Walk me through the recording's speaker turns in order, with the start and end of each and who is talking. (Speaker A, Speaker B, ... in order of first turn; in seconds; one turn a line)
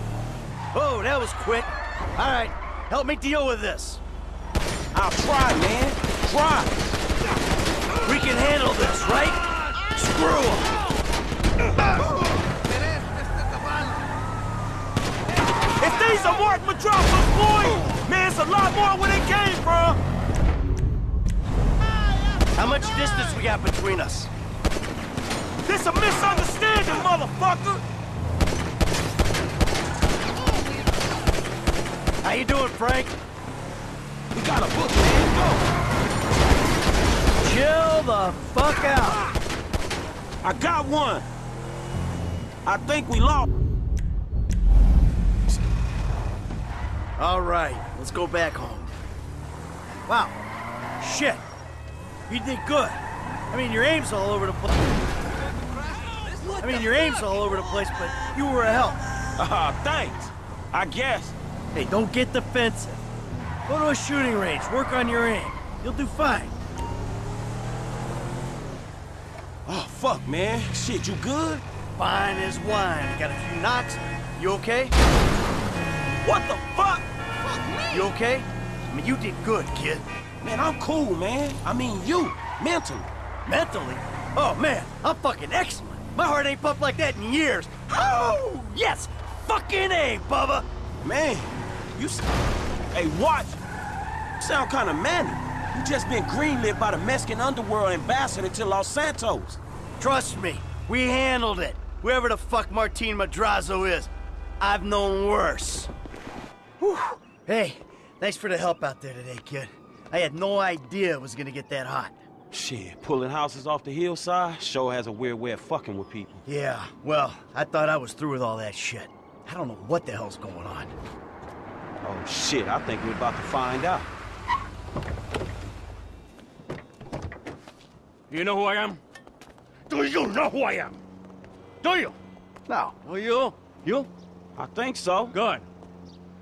Speaker A: 0.7-4.0
Speaker B: 4.9-6.8
Speaker A: 8.0-10.7
Speaker B: 15.8-20.0
Speaker A: 22.5-24.3
Speaker B: 25.6-27.8
Speaker A: 32.2-33.1
Speaker B: 34.3-35.6
Speaker A: 37.4-39.2
Speaker B: 40.4-41.2
Speaker B: 42.6-43.5
Speaker A: 47.2-48.9
Speaker A: 50.1-50.4
Speaker A: 51.0-51.4
Speaker A: 52.3-53.0
Speaker A: 53.5-54.9
Speaker A: 56.6-59.0
Speaker B: 59.4-61.4
Speaker A: 61.7-63.0
Speaker A: 63.7-66.5
Speaker B: 69.7-71.6
Speaker A: 72.0-74.9
Speaker B: 76.2-78.1
Speaker A: 77.9-80.0
Speaker B: 80.4-83.1
Speaker A: 83.4-90.7
Speaker B: 91.0-92.3
Speaker B: 92.9-93.6
Speaker B: 94.4-99.6
Speaker A: 100.0-105.9
Speaker A: 106.8-112.2
Speaker B: 112.5-116.4
Speaker A: 116.5-120.9
Speaker B: 122.0-124.1
Speaker C: 128.3-129.0
Speaker C: 129.9-131.0
Speaker C: 131.8-132.2
Speaker A: 132.7-134.1
Speaker B: 134.6-135.3
Speaker C: 135.3-135.7